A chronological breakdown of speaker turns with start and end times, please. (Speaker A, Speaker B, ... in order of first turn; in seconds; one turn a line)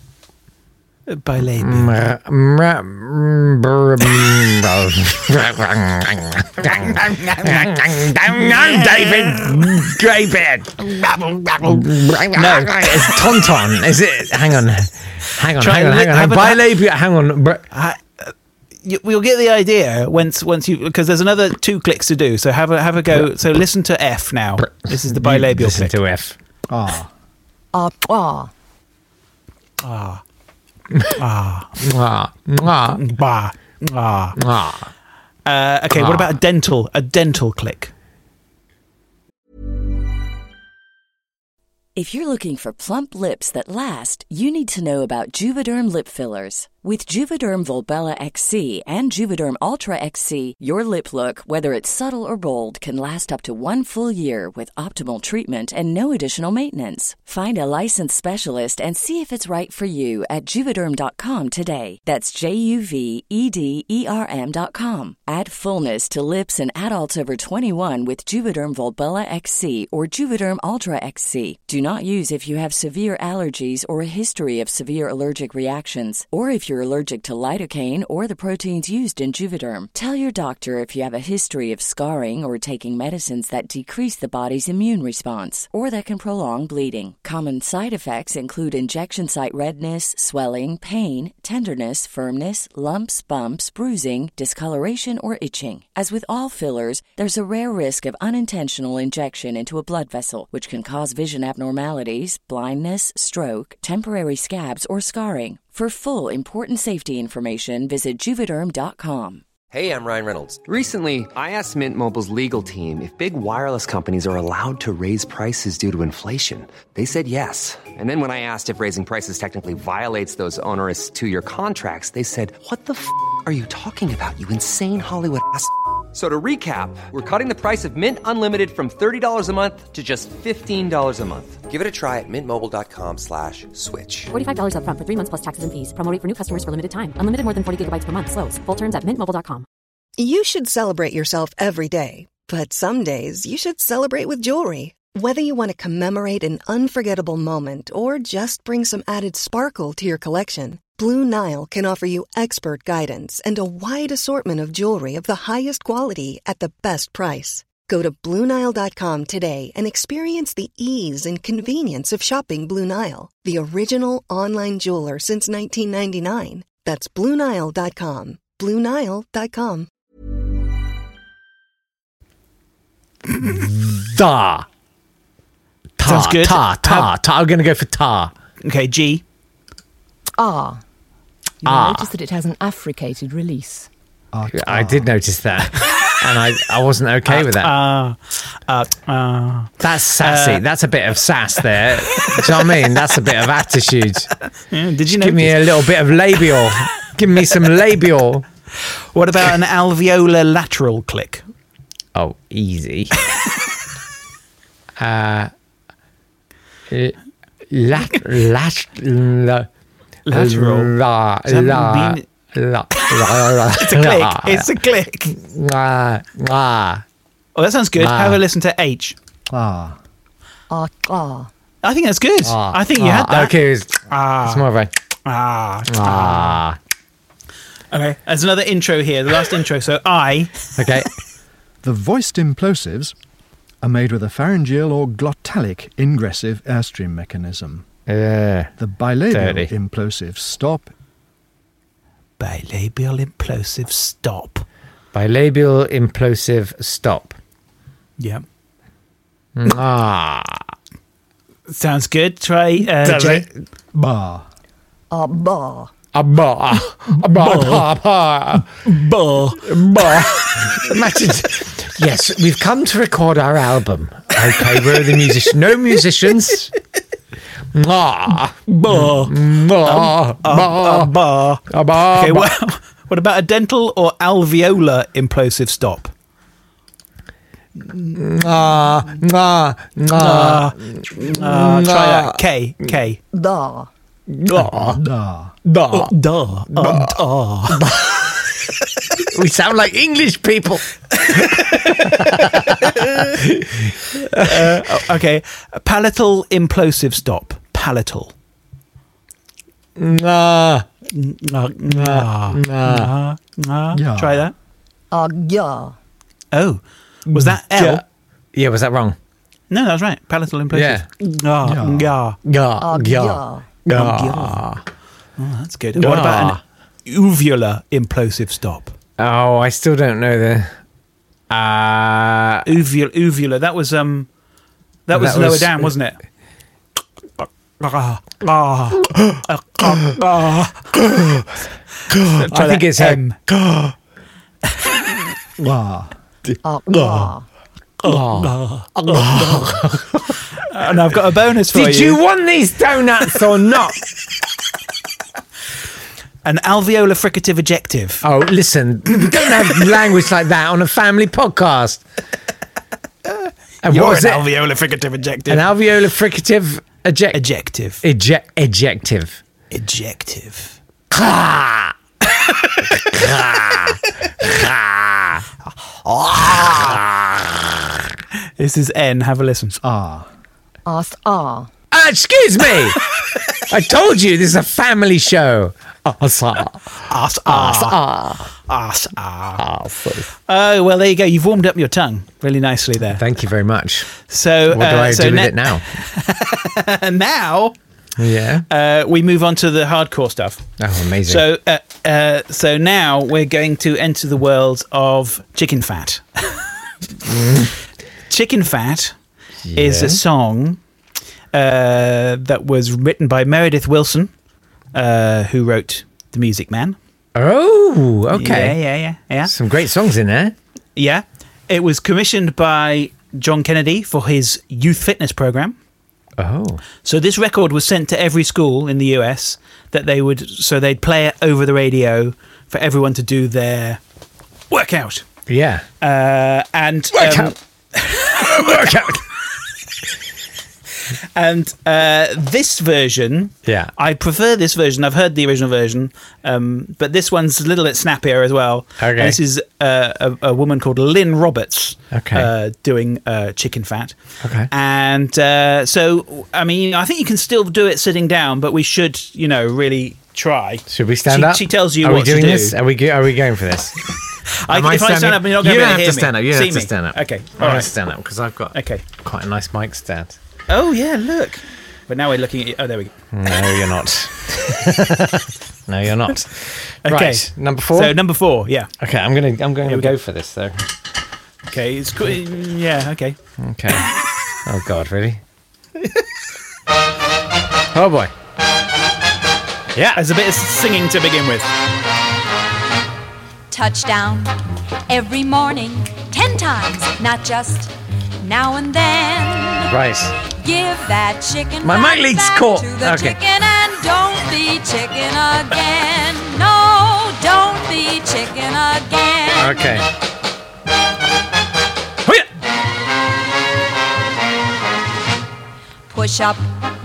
Speaker A: 1.1-2.0
Speaker B: 1.6-17.7
Speaker A: 6.7-7.8
Speaker A: 8.3-9.5
Speaker A: 12.3-13.2
Speaker A: 15.6-16.6
Speaker A: 17.7-26.0
Speaker B: 24.6-26.4
Speaker C: 26.7-27.1
Speaker D: 27.7-28.5
Speaker A: 29.8-30.2
Speaker A: 31.2-31.8
Speaker B: 31.8-33.0
Speaker A: 32.9-34.4
Speaker B: 34.4-34.9
Speaker A: 35.5-37.9
Speaker B: 35.9-36.4
Speaker E: 42.0-109.4
Speaker F: 109.7-134.3
Speaker G: 134.3-139.7
Speaker H: 140.2-169.9
Speaker B: 173.4-174.7
Speaker B: 176.0-178.3
Speaker A: 176.0-177.1
Speaker A: 178.6-179.2
Speaker D: 180.4-180.8
Speaker D: 181.6-183.9
Speaker B: 181.7-182.1
Speaker C: 184.3-185.1
Speaker B: 184.5-187.7
Speaker A: 187.3-190.6
Speaker B: 189.8-194.3
Speaker A: 194.7-195.9
Speaker B: 195.2-198.5
Speaker A: 199.1-201.4
Speaker B: 202.1-203.2
Speaker B: 205.0-205.5
Speaker B: 206.9-207.2
Speaker B: 207.7-209.7
Speaker A: 210.3-210.9
Speaker B: 210.3-214.7
Speaker A: 211.5-212.2
Speaker A: 213.7-215.4
Speaker B: 215.3-217.1
Speaker A: 217.6-219.2
Speaker B: 218.0-218.4
Speaker C: 219.5-220.0
Speaker D: 220.7-221.5
Speaker A: 221.8-223.5
Speaker B: 222.4-224.9
Speaker A: 224.1-224.7
Speaker A: 225.2-226.6
Speaker B: 225.9-226.8
Speaker A: 227.9-230.6
Speaker B: 230.8-231.1
Speaker C: 231.8-233.1
Speaker C: 233.8-237.9
Speaker B: 238.1-238.7
Speaker C: 238.8-240.9
Speaker B: 239.3-239.7
Speaker A: 242.4-244.7
Speaker B: 245.1-247.4
Speaker A: 248.2-248.4
Speaker B: 249.6-250.7
Speaker A: 251.7-253.5
Speaker B: 253.0-253.5
Speaker C: 253.9-254.5
Speaker D: 255.1-255.9
Speaker B: 256.1-258.9
Speaker A: 257.4-257.8
Speaker A: 258.9-259.6
Speaker B: 259.5-266.7
Speaker B: 267.7-271.1
Speaker A: 268.7-276.1
Speaker B: 271.7-272.5
Speaker B: 278.1-282.4
Speaker A: 280.1-283.2
Speaker D: 283.3-283.9
Speaker B: 284.3-285.0
Speaker C: 284.9-285.6
Speaker B: 285.6-286.1
Speaker A: 285.9-287.8
Speaker B: 286.7-287.1
Speaker B: 287.7-288.4
Speaker B: 289.2-294.9
Speaker A: 291.2-292.3
Speaker A: 293.0-293.4
Speaker A: 294.3-298.3
Speaker B: 300.0-300.9
Speaker A: 301.1-304.5
Speaker B: 301.9-303.1
Speaker C: 303.9-304.5
Speaker D: 305.1-305.9
Speaker A: 306.5-308.0
Speaker B: 307.4-308.0
Speaker B: 308.5-309.2
Speaker A: 309.7-312.4
Speaker B: 310.7-311.1
Speaker C: 311.6-312.2
Speaker B: 312.4-314.8
Speaker D: 312.8-313.7
Speaker A: 313.9-314.7
Speaker A: 315.4-318.9
Speaker B: 316.0-316.6
Speaker B: 319.2-320.7
Speaker B: 321.5-322.7
Speaker A: 322.6-324.3
Speaker A: 325.1-326.2
Speaker B: 325.1-325.9
Speaker A: 327.4-330.9
Speaker B: 329.0-329.4
Speaker B: 330.9-331.5
Speaker B: 332.1-333.9
Speaker A: 332.3-333.4
Speaker C: 335.6-336.1
Speaker B: 336.5-337.3
Speaker D: 336.6-337.5
Speaker A: 338.0-339.7
Speaker B: 338.0-340.4
Speaker A: 340.6-342.2
Speaker B: 341.7-344.0
Speaker A: 346.4-348.2
Speaker B: 348.2-352.0
Speaker B: 353.8-354.5
Speaker A: 353.8-355.7
Speaker B: 355.5-357.4
Speaker A: 357.3-358.0
Speaker B: 358.0-359.4
Speaker A: 359.7-360.8
Speaker B: 361.1-361.9
Speaker B: 362.9-365.4
Speaker A: 366.1-366.8
Speaker B: 366.3-368.1
Speaker A: 368.6-369.8
Speaker C: 369.8-370.3
Speaker D: 370.9-371.7
Speaker B: 371.9-373.0
Speaker B: 373.7-376.9
Speaker A: 377.1-378.0
Speaker B: 377.5-378.5
Speaker A: 378.7-379.6
Speaker B: 379.6-380.3
Speaker A: 380.5-383.2
Speaker B: 383.1-384.1
Speaker A: 384.3-387.8
Speaker B: 384.7-386.0
Speaker B: 388.2-388.6
Speaker A: 388.7-390.7
Speaker B: 390.8-391.4
Speaker A: 391.2-396.7
Speaker B: 397.3-397.7
Speaker A: 398.3-399.1
Speaker B: 399.6-400.2
Speaker A: 399.7-400.8
Speaker A: 401.5-404.3
Speaker A: 404.9-407.0
Speaker B: 407.4-408.8
Speaker A: 408.3-409.5
Speaker B: 409.4-410.6
Speaker A: 411.0-415.8
Speaker B: 416.4-416.8
Speaker A: 417.0-424.0
Speaker A: 424.7-425.3
Speaker B: 425.5-425.9
Speaker A: 426.0-428.9
Speaker B: 427.1-427.5
Speaker B: 428.2-429.2
Speaker A: 431.4-444.2
Speaker B: 433.6-433.9
Speaker B: 439.0-439.4
Speaker B: 442.1-442.5
Speaker B: 444.4-444.7
Speaker A: 444.7-452.8
Speaker B: 450.9-454.0
Speaker A: 454.7-457.9
Speaker B: 454.7-460.4
Speaker A: 458.7-459.0
Speaker A: 460.7-463.1
Speaker B: 463.3-468.2
Speaker A: 467.1-468.9
Speaker B: 469.0-470.9
Speaker A: 469.9-470.1
Speaker A: 471.7-473.4
Speaker B: 473.6-474.1
Speaker B: 474.6-475.4
Speaker B: 477.9-478.3
Speaker B: 479.9-480.2
Speaker A: 480.1-481.7
Speaker I: 483.7-484.6
Speaker I: 485.1-489.9
Speaker B: 489.9-490.4
Speaker I: 490.5-499.9
Speaker B: 491.8-493.4
Speaker B: 499.6-500.1
Speaker I: 506.1-506.6